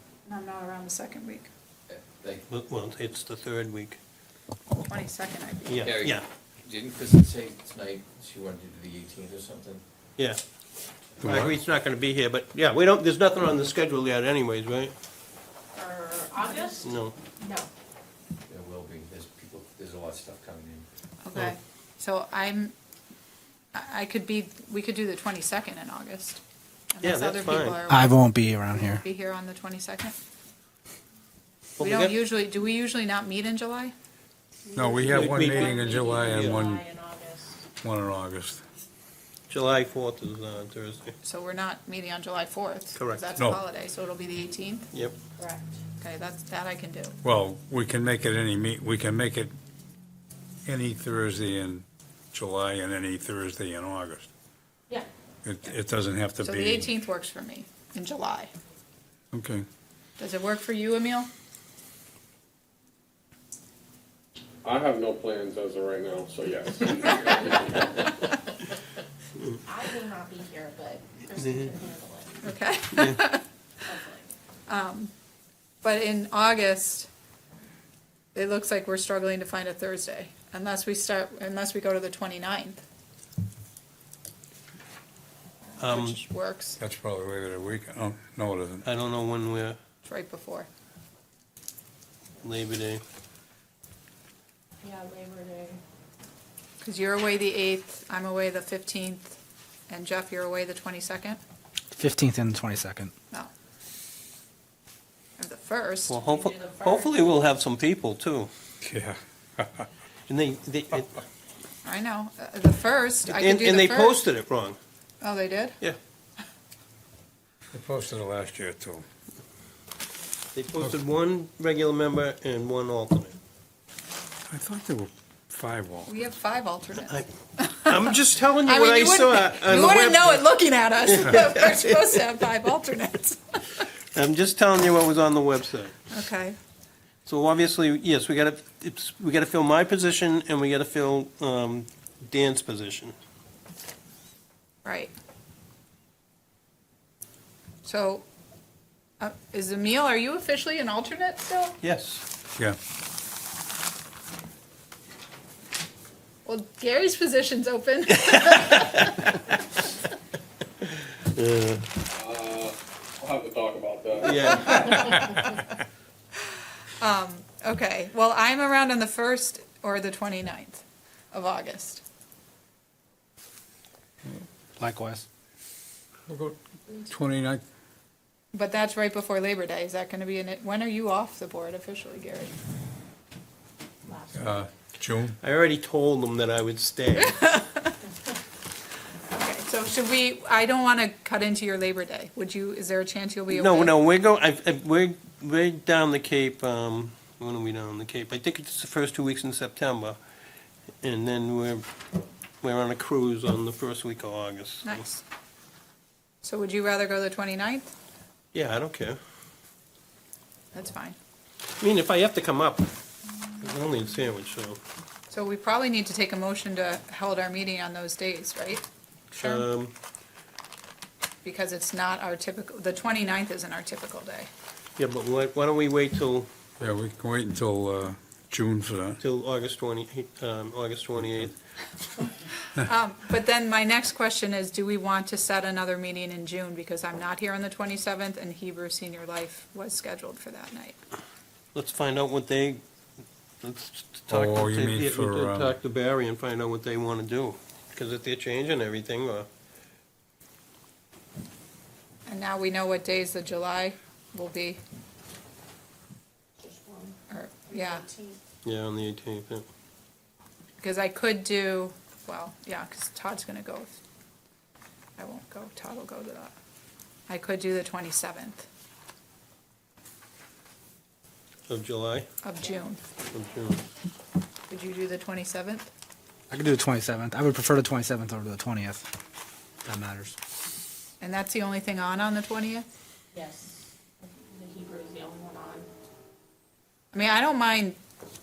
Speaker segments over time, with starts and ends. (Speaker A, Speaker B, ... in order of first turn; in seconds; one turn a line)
Speaker A: 0.2-1.5
Speaker B: 1.9-2.4
Speaker C: 2.5-4.0
Speaker A: 4.8-5.8
Speaker C: 5.6-6.2
Speaker B: 5.8-9.8
Speaker D: 11.2-11.5
Speaker C: 11.2-14.9
Speaker E: 15.7-17.7
Speaker C: 16.8-17.1
Speaker B: 18.5-20.9
Speaker A: 21.2-22.7
Speaker A: 23.7-26.4
Speaker A: 26.9-30.1
Speaker C: 27.0-27.8
Speaker F: 27.9-29.0
Speaker C: 31.8-32.1
Speaker A: 31.8-33.9
Speaker E: 34.7-37.6
Speaker D: 34.7-36.8
Speaker C: 35.0-36.6
Speaker D: 37.8-38.6
Speaker C: 39.5-41.1
Speaker A: 41.2-44.9
Speaker C: 42.9-43.2
Speaker E: 45.4-45.7
Speaker A: 46.0-47.1
Speaker D: 47.2-49.5
Speaker D: 50.6-54.3
Speaker D: 55.4-56.9
Speaker A: 56.4-58.5
Speaker D: 59.3-59.6
Speaker A: 60.2-61.3
Speaker G: 64.6-68.1
Speaker E: 69.6-72.4
Speaker C: 71.4-71.7
Speaker A: 72.4-73.4
Speaker C: 72.9-73.2
Speaker E: 73.8-74.3
Speaker A: 74.7-75.1
Speaker A: 75.8-77.1
Speaker A: 78.3-82.8
Speaker C: 85.8-86.2
Speaker A: 85.8-86.8
Speaker D: 86.8-88.8
Speaker C: 88.8-89.8
Speaker A: 90.0-90.7
Speaker C: 92.4-93.0
Speaker E: 94.8-95.8
Speaker A: 96.8-99.3
Speaker A: 99.9-101.4
Speaker F: 101.9-103.1
Speaker A: 105.4-107.1
Speaker C: 106.1-108.5
Speaker E: 106.3-107.2
Speaker D: 108.8-109.9
Speaker C: 110.3-111.2
Speaker A: 111.8-114.2
Speaker C: 113.2-114.8
Speaker A: 115.2-115.8
Speaker D: 117.7-119.0
Speaker C: 120.5-123.4
Speaker D: 124.5-126.1
Speaker A: 126.0-128.1
Speaker C: 127.8-130.4
Speaker A: 128.6-133.8
Speaker C: 131.0-132.0
Speaker C: 134.1-136.0
Speaker A: 136.1-136.6
Speaker C: 137.2-143.1
Speaker A: 144.8-145.1
Speaker A: 147.8-148.2
Speaker A: 149.2-151.8
Speaker C: 151.8-152.2
Speaker A: 156.4-159.2
Speaker C: 158.6-159.1
Speaker C: 161.2-161.9
Speaker G: 162.1-165.1
Speaker C: 164.2-164.9
Speaker A: 167.0-172.0
Speaker F: 174.8-175.2
Speaker D: 176.3-177.6
Speaker A: 178.5-182.5
Speaker E: 184.0-184.6
Speaker D: 184.3-185.3
Speaker C: 185.4-187.5
Speaker A: 187.4-187.9
Speaker A: 189.3-193.9
Speaker C: 193.5-200.2
Speaker C: 201.0-201.8
Speaker C: 202.6-205.1
Speaker A: 204.8-205.2
Speaker A: 206.4-207.9
Speaker C: 208.5-209.2
Speaker A: 210.7-211.2
Speaker C: 211.8-212.9
Speaker C: 213.6-214.8
Speaker A: 215.3-219.7
Speaker C: 219.3-219.9
Speaker A: 221.4-224.5
Speaker C: 225.0-226.5
Speaker D: 226.8-229.2
Speaker C: 229.2-231.5
Speaker A: 232.7-241.0
Speaker C: 241.7-242.8
Speaker C: 243.6-249.5
Speaker D: 244.3-245.7
Speaker A: 252.2-254.8
Speaker E: 256.6-257.2
Speaker A: 257.3-258.1
Speaker E: 257.7-258.4
Speaker C: 258.6-259.6
Speaker A: 260.8-264.0
Speaker A: 265.2-266.5
Speaker A: 267.3-268.6
Speaker C: 271.7-272.3
Speaker A: 272.4-273.0
Speaker C: 273.3-273.8
Speaker A: 274.7-275.9
Speaker F: 276.5-279.1
Speaker F: 279.8-280.4
Speaker A: 281.2-282.9
Speaker E: 283.3-285.9
Speaker A: 287.1-288.0